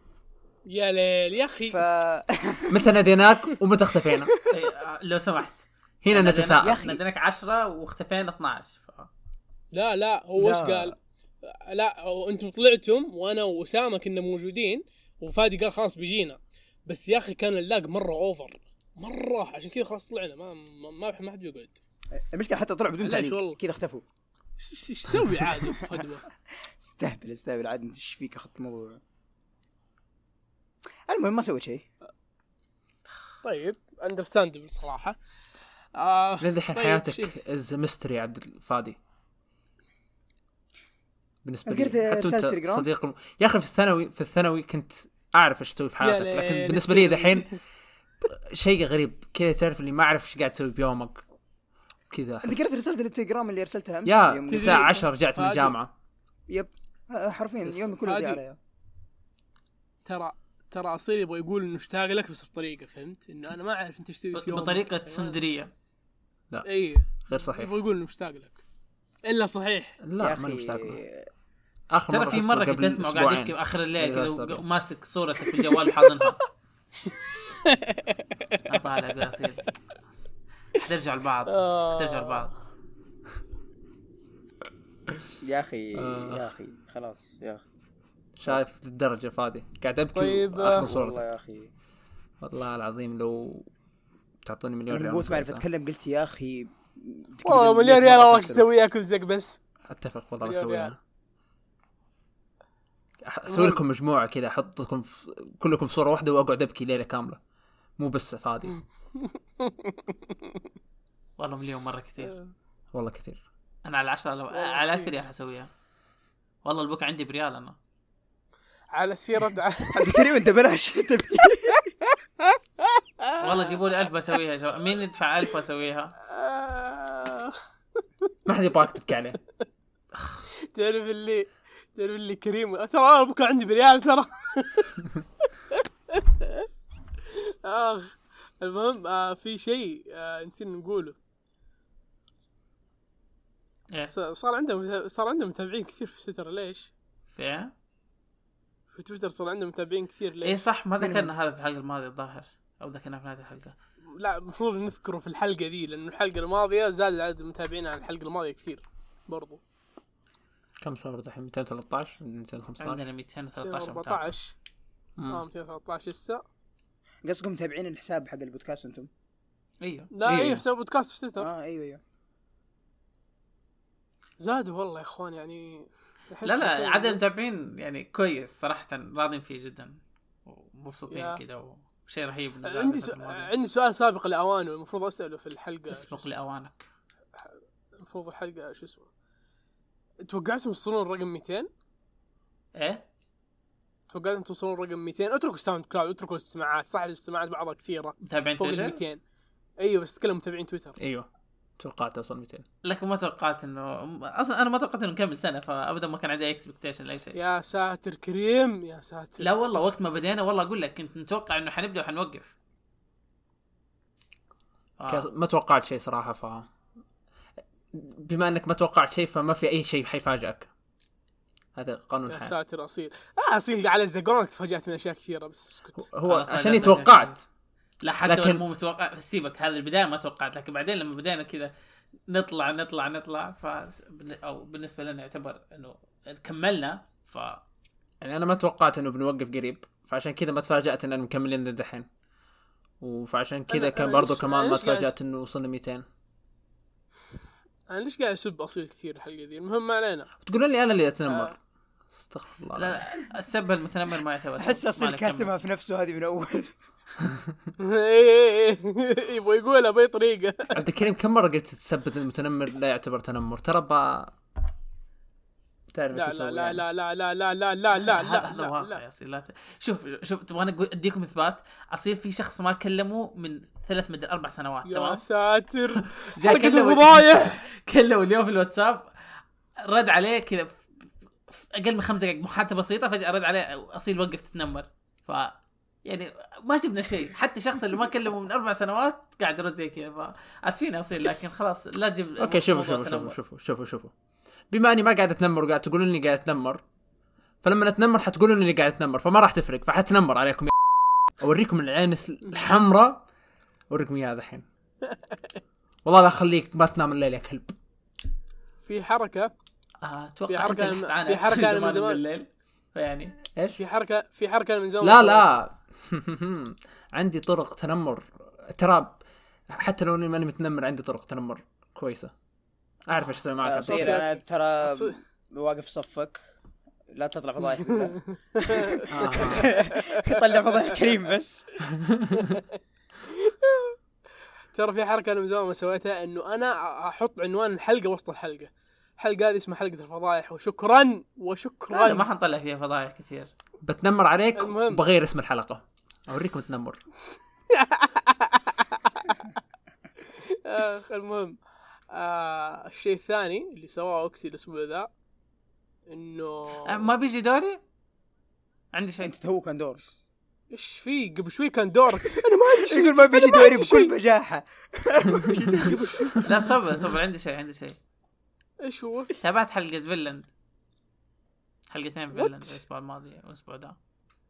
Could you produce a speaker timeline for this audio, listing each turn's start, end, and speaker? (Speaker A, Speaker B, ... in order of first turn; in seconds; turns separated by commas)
Speaker A: 0.7-1.8, Speaker B: 1.7-2.9, Speaker C: 2.7-4.3, Speaker D: 4.5-9.1, Speaker C: 6.0-6.8, Speaker B: 6.6-7.0, Speaker A: 9.7-21.8, Speaker B: 10.4-10.9, Speaker B: 22.1-24.0, Speaker A: 23.0-23.6, Speaker A: 24.6-26.3, Speaker B: 25.6-26.1, Speaker B: 26.8-29.0, Speaker B: 31.1-31.9, Speaker A: 33.4-35.2, Speaker A: 36.0-37.4, Speaker C: 36.4-39.0, Speaker C: 41.4-47.5, Speaker B: 41.7-42.9, Speaker A: 46.0-47.6, Speaker C: 48.5-51.2, Speaker C: 52.1-52.8, Speaker B: 52.4-55.1, Speaker C: 54.0-55.9, Speaker A: 54.5-55.8, Speaker B: 56.5-58.6, Speaker A: 57.7-58.4, Speaker A: 60.0-65.4, Speaker D: 64.4-65.7, Speaker A: 66.7-68.6, Speaker C: 67.3-67.7, Speaker A: 69.3-70.0, Speaker C: 70.0-71.0, Speaker B: 70.2-71.3, Speaker C: 71.9-74.6, Speaker D: 72.1-76.4, Speaker A: 76.0-76.3, Speaker A: 77.0-78.7, Speaker D: 78.7-80.0, Speaker D: 80.7-82.5, Speaker A: 81.5-82.5, Speaker B: 85.4-87.6, Speaker C: 86.0-86.5, Speaker C: 88.4-91.2, Speaker A: 90.1-90.9, Speaker B: 90.7-91.7, Speaker C: 92.4-93.7, Speaker C: 94.4-95.6, Speaker B: 94.9-98.7, Speaker A: 97.5-99.6, Speaker C: 99.9-101.0, Speaker A: 100.4-100.9, Speaker C: 103.2-107.4, Speaker A: 103.5-103.8, Speaker C: 108.0-108.8, Speaker A: 109.2-110.6, Speaker D: 111.4-112.4, Speaker A: 112.2-112.5, Speaker C: 112.9-113.4, Speaker D: 113.8-115.7, Speaker A: 114.5-115.1, Speaker D: 116.7-117.8, Speaker A: 118.9-120.3, Speaker B: 119.9-121.8, Speaker A: 122.8-123.7, Speaker D: 123.4-126.1, Speaker A: 126.3-127.6, Speaker C: 128.5-129.4, Speaker A: 130.7-136.7, Speaker A: 137.7-141.2, Speaker A: 144.1-146.9, Speaker D: 147.3-147.7, Speaker A: 148.9-150.6, Speaker D: 150.4-153.8, Speaker B: 151.0-151.3, Speaker A: 154.2-159.6, Speaker C: 160.8-163.1, Speaker D: 162.8-164.3, Speaker A: 163.6-164.6, Speaker C: 165.2-165.4, Speaker A: 165.3-166.4, Speaker B: 167.2-169.1, Speaker D: 169.8-170.1, Speaker A: 170.1-171.5, Speaker C: 170.2-170.6, Speaker B: 171.4-172.0, Speaker A: 174.4-177.2, Speaker D: 176.4-180.0, Speaker D: 180.5-183.5, Speaker A: 181.1-181.4, Speaker A: 182.6-186.3, Speaker D: 185.9-186.9, Speaker A: 187.4-189.1, Speaker A: 190.2-191.7, Speaker D: 192.8-193.0, Speaker A: 194.1-199.2, Speaker D: 198.2-199.0, Speaker A: 199.8-201.0, Speaker C: 201.0-201.3, Speaker C: 201.8-202.7, Speaker D: 202.8-207.4, Speaker A: 207.3-209.5, Speaker D: 209.4-212.5, Speaker D: 215.0-215.3, Speaker C: 215.1-216.7, Speaker C: 217.9-220.7, Speaker C: 221.8-222.6, Speaker A: 222.3-226.1, Speaker C: 226.0-227.4, Speaker D: 226.3-227.4, Speaker D: 228.0-231.7, Speaker C: 228.3-228.6, Speaker D: 232.3-237.6, Speaker C: 238.2-242.1, Speaker C: 243.0-246.1, Speaker A: 243.7-245.2, Speaker A: 247.9-250.3, Speaker C: 250.4-251.6, Speaker A: 251.3-251.5, Speaker C: 252.2-253.0, Speaker D: 252.8-255.5, Speaker B: 254.6-256.7, Speaker A: 257.8-260.8, Speaker C: 260.7-264.3, Speaker C: 265.9-266.8, Speaker A: 266.1-269.0, Speaker D: 268.0-275.2, Speaker A: 274.9-277.6, Speaker D: 276.4-279.1, Speaker D: 279.9-280.8, Speaker D: 281.5-285.5, Speaker D: 286.1-293.4, Speaker C: 292.4-294.1, Speaker C: 294.7-296.8, Speaker C: 297.6-300.8, Speaker C: 301.4-303.2, Speaker C: 303.9-304.7, Speaker A: 305.1-305.6, Speaker C: 306.1-307.8, Speaker A: 308.9-309.5, Speaker D: 310.0-313.4, Speaker A: 310.5-312.2, Speaker C: 313.5-313.8, Speaker A: 313.8-315.5, Speaker C: 315.0-319.2, Speaker C: 319.7-322.3, Speaker C: 323.1-324.3, Speaker B: 323.6-326.4, Speaker A: 323.9-325.2, Speaker B: 327.1-331.7, Speaker A: 327.9-330.8, Speaker C: 329.1-329.8, Speaker A: 333.4-334.0, Speaker A: 334.7-342.3, Speaker D: 341.9-343.5, Speaker C: 343.8-347.0, Speaker A: 344.6-345.1, Speaker A: 347.7-349.5, Speaker A: 350.3-351.6, Speaker A: 352.1-355.1, Speaker A: 356.1-357.1, Speaker D: 356.9-357.8, Speaker D: 358.9-359.3, Speaker B: 359.2-360.1, Speaker A: 360.7-364.1, Speaker B: 362.4-366.4, Speaker A: 365.4-366.5, Speaker D: 366.4-368.0, Speaker A: 368.8-369.3, Speaker D: 369.4-370.5, Speaker D: 371.9-373.9, Speaker A: 372.3-372.8